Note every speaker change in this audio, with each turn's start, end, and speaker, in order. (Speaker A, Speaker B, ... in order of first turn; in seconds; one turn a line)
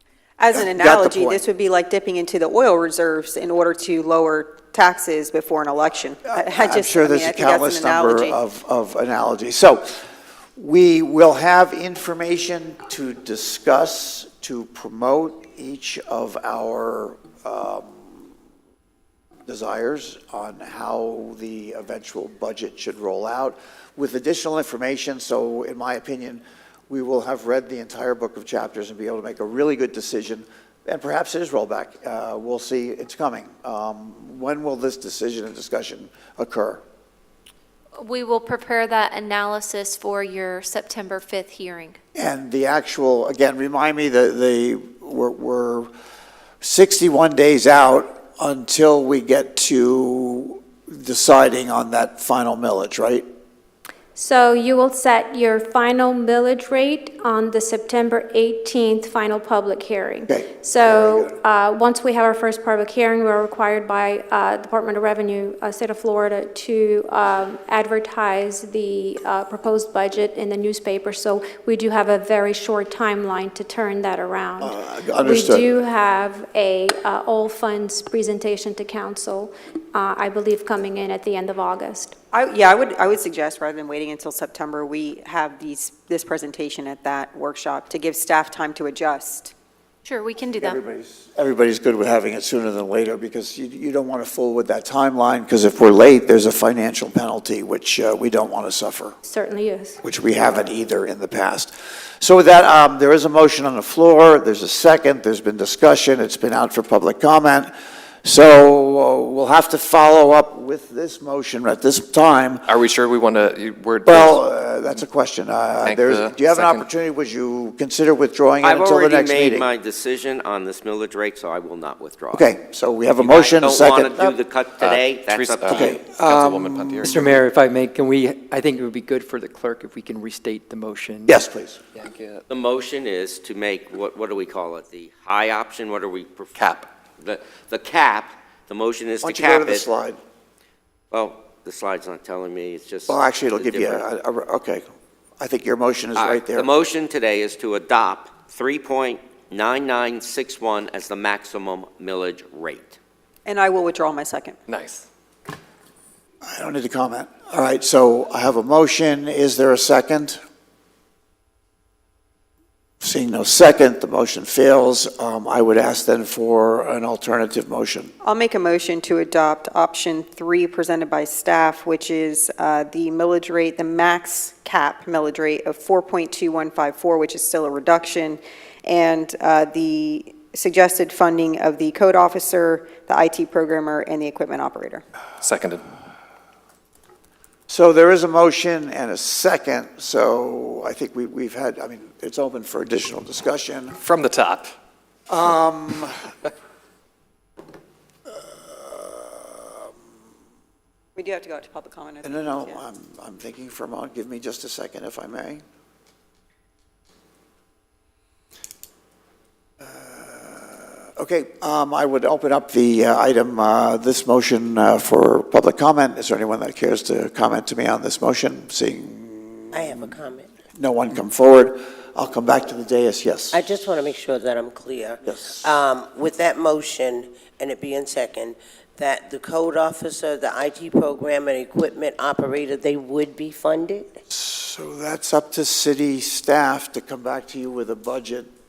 Speaker A: 0.4-8.4
Speaker B: 0.5-1.4
Speaker B: 6.3-9.9
Speaker B: 10.6-18.3
Speaker B: 19.5-36.8
Speaker C: 38.0-42.0
Speaker B: 42.1-45.9
Speaker B: 46.6-53.2
Speaker D: 54.1-82.2
Speaker B: 60.3-61.3
Speaker B: 74.6-75.7
Speaker A: 82.3-89.5
Speaker C: 90.0-90.8
Speaker B: 90.5-99.2
Speaker D: 99.2-100.0
Speaker B: 100.0-107.7
Speaker B: 108.2-112.6
Speaker E: 112.7-114.4
Speaker B: 114.0-119.7
Speaker E: 115.8-116.8
Speaker F: 118.6-122.5
Speaker B: 122.3-124.3
Speaker F: 123.2-126.0
Speaker E: 124.8-127.4
Speaker B: 125.7-127.2
Speaker G: 127.1-131.3
Speaker B: 131.3-131.8
Speaker E: 132.1-132.4
Speaker F: 132.5-136.6
Speaker E: 136.6-136.9
Speaker F: 137.2-139.8
Speaker B: 139.2-140.2
Speaker F: 141.1-144.0
Speaker B: 143.1-144.9
Speaker B: 145.4-146.7
Speaker F: 146.2-153.0
Speaker A: 153.4-154.6
Speaker E: 154.7-155.0
Speaker B: 156.4-160.4
Speaker B: 163.0-168.1
Speaker A: 168.2-185.0
Speaker E: 185.4-185.8
Speaker B: 187.7-193.9
Speaker E: 194.0-194.7
Speaker B: 195.3-196.1
Speaker B: 198.5-199.8
Speaker A: 201.2-202.8
Speaker B: 202.2-205.6
Speaker B: 209.8-220.1
Speaker H: 219.7-220.5
Speaker B: 220.8-223.6
Speaker H: 223.5-234.2
Speaker B: 225.2-225.7
Speaker B: 234.3-238.5